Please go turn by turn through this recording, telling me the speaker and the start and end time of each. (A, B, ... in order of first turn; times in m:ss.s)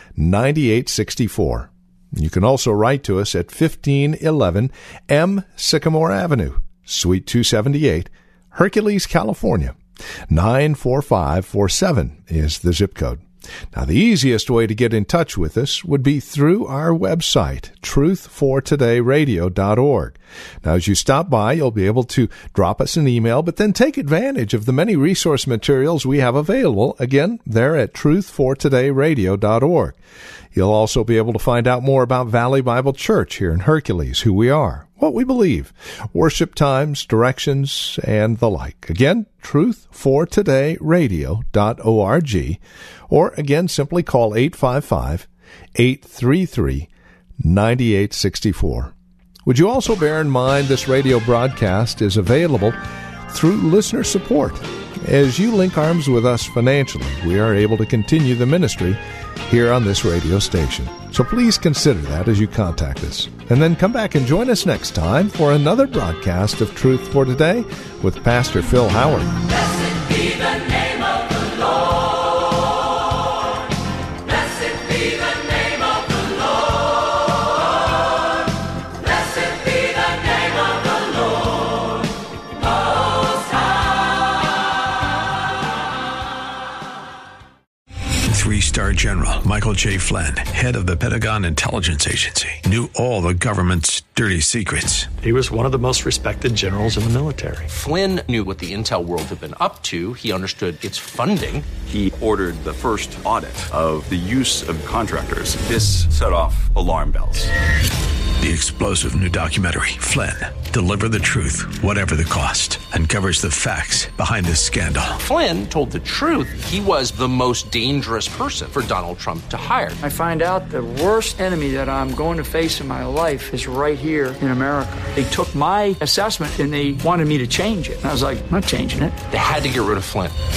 0:00.2-0:09.8 A
0:10.3-0:30.0 A
0:30.5-0:46.9 A
0:47.4-0:48.9 A
0:49.4-0:52.8 A
0:53.3-1:09.3 A
1:28.2-1:35.1 B
1:35.2-1:37.7 C
1:37.7-1:41.7 D
1:41.8-1:47.5 E
1:48.4-1:55.2 B
1:55.2-2:00.0 D
2:00.0-2:09.2 F
2:09.3-2:10.3 D